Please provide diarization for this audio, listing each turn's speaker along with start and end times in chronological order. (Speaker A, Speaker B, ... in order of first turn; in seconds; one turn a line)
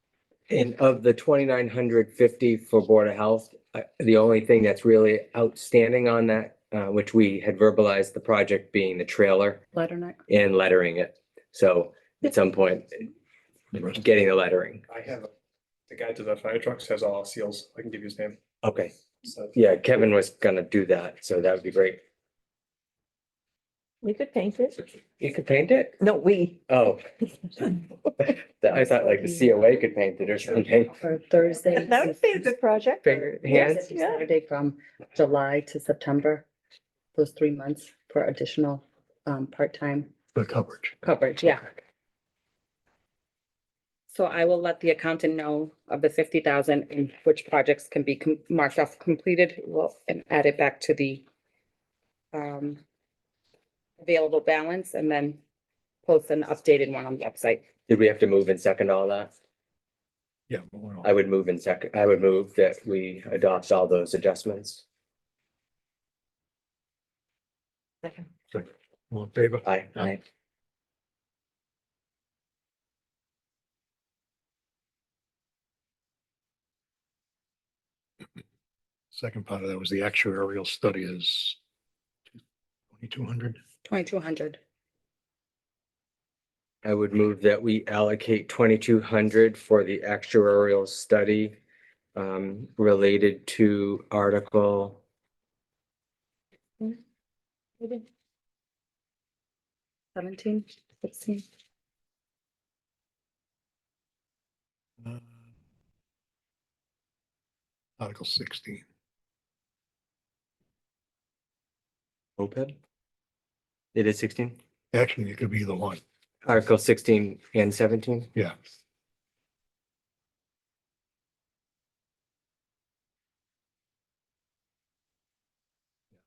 Speaker A: 0.5-9.6
Speaker B: 9.7-10.2
Speaker A: 10.3-12.9
Speaker A: 13.7-14.8
Speaker C: 14.9-15.3
Speaker C: 15.9-18.4
Speaker A: 18.6-18.9
Speaker C: 19.2-19.6
Speaker A: 19.5-22.0
Speaker D: 24.0-24.8
Speaker A: 25.2-26.0
Speaker D: 26.0-26.6
Speaker A: 26.7-27.0
Speaker A: 28.2-30.9
Speaker D: 28.8-29.3
Speaker B: 30.9-32.3
Speaker D: 31.7-34.2
Speaker A: 33.0-33.9
Speaker B: 33.4-36.5
Speaker B: 37.1-40.1
Speaker E: 40.3-41.0
Speaker B: 41.0-41.7
Speaker B: 44.1-51.2
Speaker B: 52.3-52.8
Speaker B: 54.0-55.4
Speaker B: 56.0-57.6
Speaker A: 57.9-59.3
Speaker E: 60.5-61.1
Speaker A: 61.0-64.8
Speaker E: 68.5-70.1
Speaker A: 69.6-70.0
Speaker E: 79.1-81.6
Speaker E: 82.9-83.6
Speaker B: 83.9-84.6
Speaker A: 86.8-91.5
Speaker A: 92.1-95.0
Speaker B: 100.1-101.4
Speaker E: 105.0-105.3
Speaker E: 108.0-108.8
Speaker A: 112.4-112.8
Speaker A: 113.9-114.6
Speaker E: 114.9-116.0
Speaker A: 116.4-118.3